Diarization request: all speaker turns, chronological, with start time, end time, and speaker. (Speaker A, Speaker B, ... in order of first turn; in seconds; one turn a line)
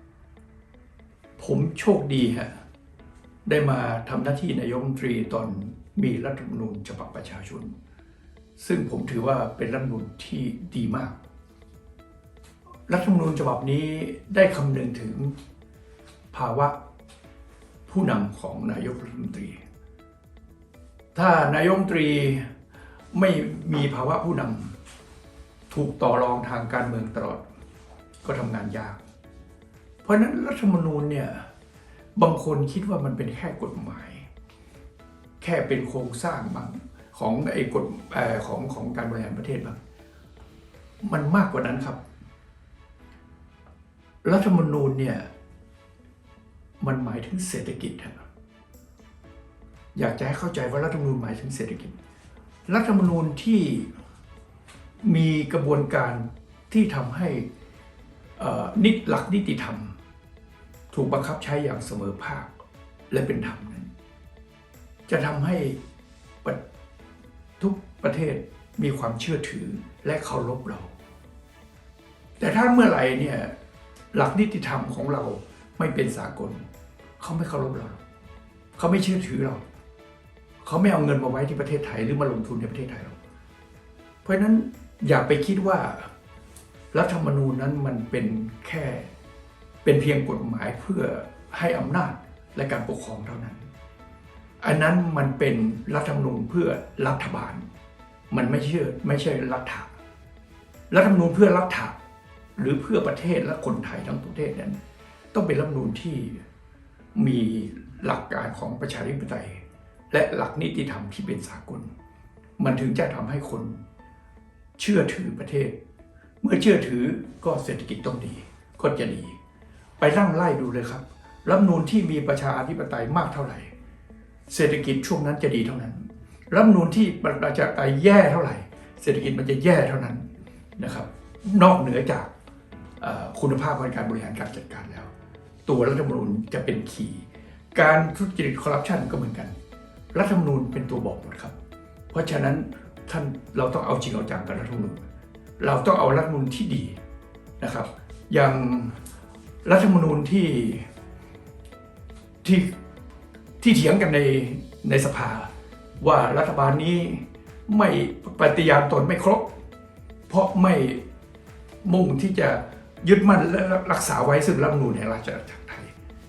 Speaker A: 1.4-2.5
Speaker A: 3.5-7.7
Speaker A: 8.6-11.2
Speaker A: 12.9-15.3
Speaker A: 16.3-16.7
Speaker A: 17.9-19.6
Speaker A: 21.1-22.5
Speaker A: 23.1-24.8
Speaker A: 25.7-27.4
Speaker A: 28.2-29.0
Speaker A: 30.0-31.4
Speaker A: 32.1-34.3
Speaker A: 35.4-39.8
Speaker A: 41.0-42.0
Speaker A: 44.2-45.3
Speaker A: 46.8-48.2
Speaker A: 49.9-52.0
Speaker A: 52.7-53.9
Speaker A: 55.0-57.5
Speaker A: 58.4-60.0
Speaker A: 60.9-62.5
Speaker A: 63.1-63.9
Speaker A: 65.1-65.8
Speaker A: 67.6-70.9
Speaker A: 72.4-73.5
Speaker A: 74.1-76.7
Speaker A: 77.2-78.0
Speaker A: 78.7-79.6
Speaker A: 80.6-83.2
Speaker A: 84.2-86.1
Speaker A: 86.9-89.1
Speaker A: 89.8-93.7
Speaker A: 94.6-97.7
Speaker A: 98.3-99.9
Speaker A: 100.9-101.9
Speaker A: 102.5-104.8
Speaker A: 105.3-106.4
Speaker A: 107.1-111.9
Speaker A: 112.6-113.8
Speaker A: 114.8-115.8
Speaker A: 116.4-119.4
Speaker A: 120.0-123.7
Speaker A: 124.5-130.2
Speaker A: 130.8-132.3
Speaker A: 133.0-135.1
Speaker A: 135.7-139.5
Speaker A: 140.1-141.5
Speaker A: 142.1-145.1
Speaker A: 145.6-147.0
Speaker A: 147.6-149.0
Speaker A: 149.6-150.9
Speaker A: 152.4-152.8
Speaker A: 153.6-159.4
Speaker A: 160.3-161.0
Speaker A: 161.8-165.9